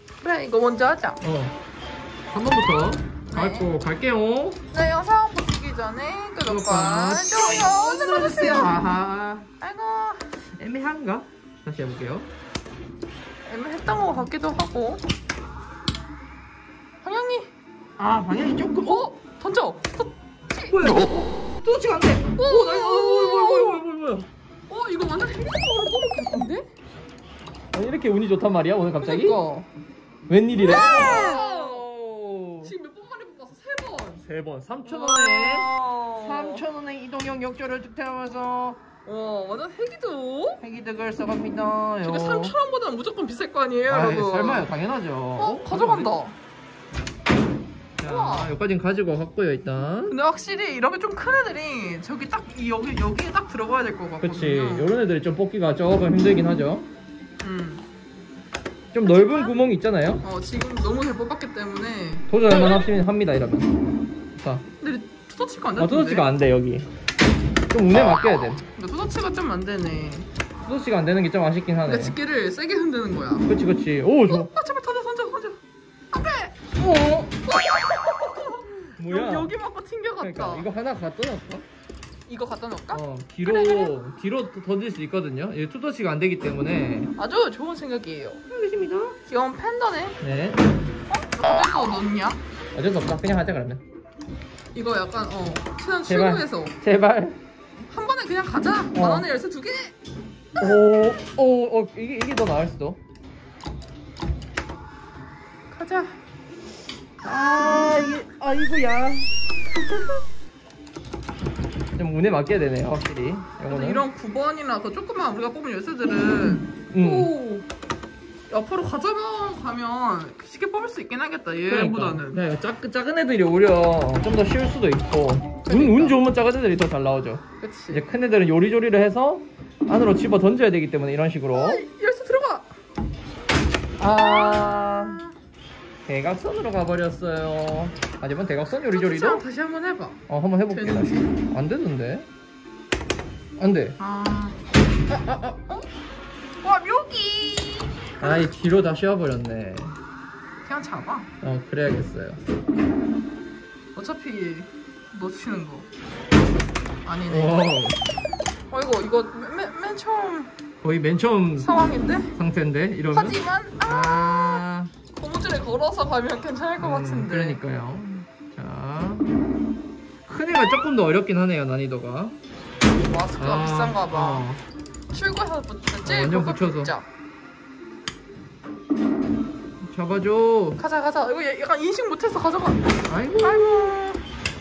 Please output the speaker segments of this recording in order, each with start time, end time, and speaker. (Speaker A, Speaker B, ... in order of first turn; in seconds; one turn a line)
Speaker A: 0.2-1.2
Speaker B: 1.2-1.6
Speaker B: 2.3-4.6
Speaker A: 3.3-3.7
Speaker A: 4.7-8.8
Speaker B: 6.5-9.5
Speaker A: 9.6-10.3
Speaker B: 10.6-12.3
Speaker A: 13.4-15.0
Speaker A: 17.0-17.5
Speaker B: 18.0-19.0
Speaker A: 18.8-20.8
Speaker B: 20.7-24.3
Speaker A: 22.4-23.8
Speaker A: 24.7-26.7
Speaker B: 27.7-29.4
Speaker A: 29.0-29.7
Speaker B: 30.3-32.7
Speaker A: 30.6-31.8
Speaker A: 32.6-34.2
Speaker B: 34.2-38.8
Speaker A: 34.8-36.6
Speaker A: 39.0-40.6
Speaker B: 40.6-42.5
Speaker A: 42.0-44.7
Speaker B: 43.9-46.1
Speaker A: 45.4-46.4
Speaker B: 48.0-50.2
Speaker A: 48.0-48.5
Speaker A: 50.1-55.0
Speaker B: 54.2-56.9
Speaker A: 57.4-57.8
Speaker B: 58.9-60.2
Speaker A: 59.0-59.6
Speaker A: 60.2-62.9
Speaker B: 62.3-63.7
Speaker B: 64.4-64.7
Speaker A: 64.8-66.3
Speaker B: 65.8-66.9
Speaker B: 67.7-68.6
Speaker A: 68.7-70.3
Speaker B: 70.7-72.2
Speaker A: 71.9-73.5
Speaker B: 73.5-74.5
Speaker A: 74.3-75.6
Speaker A: 76.1-76.6
Speaker B: 76.8-77.3
Speaker A: 77.5-80.7
Speaker B: 79.0-79.5
Speaker B: 80.2-81.7
Speaker A: 82.3-83.9
Speaker B: 82.9-87.1
Speaker A: 87.2-88.4
Speaker B: 88.5-89.2
Speaker A: 89.3-90.2
Speaker B: 90.2-90.8
Speaker A: 91.1-92.4
Speaker B: 92.7-93.8
Speaker A: 94.7-96.8
Speaker B: 96.1-97.4
Speaker A: 97.9-99.9
Speaker B: 99.0-99.3
Speaker B: 100.6-103.0
Speaker A: 105.7-106.2
Speaker B: 107.2-109.3
Speaker B: 112.0-114.0
Speaker A: 113.7-117.7
Speaker B: 116.7-117.3
Speaker A: 118.5-122.4
Speaker B: 121.7-131.8
Speaker A: 125.6-126.2
Speaker A: 127.6-128.0
Speaker A: 131.5-132.7
Speaker B: 134.0-135.2
Speaker A: 134.0-135.3
Speaker B: 136.1-139.4
Speaker A: 138.9-141.3
Speaker B: 140.3-142.3
Speaker B: 143.6-144.0
Speaker A: 144.0-144.6
Speaker B: 145.1-145.6
Speaker A: 146.6-148.5
Speaker B: 148.2-149.9
Speaker A: 150.6-151.3
Speaker B: 151.4-152.4
Speaker A: 153.9-155.9
Speaker A: 157.1-157.7
Speaker B: 157.3-158.0
Speaker A: 158.7-160.5
Speaker B: 160.8-161.7
Speaker A: 161.6-162.3
Speaker B: 162.3-164.9
Speaker A: 163.1-167.6
Speaker B: 166.8-169.3
Speaker B: 170.3-172.4
Speaker A: 173.0-174.5
Speaker B: 173.4-174.6
Speaker A: 175.1-177.1
Speaker B: 176.0-176.9
Speaker B: 179.9-180.8
Speaker A: 180.8-184.2
Speaker B: 183.1-183.9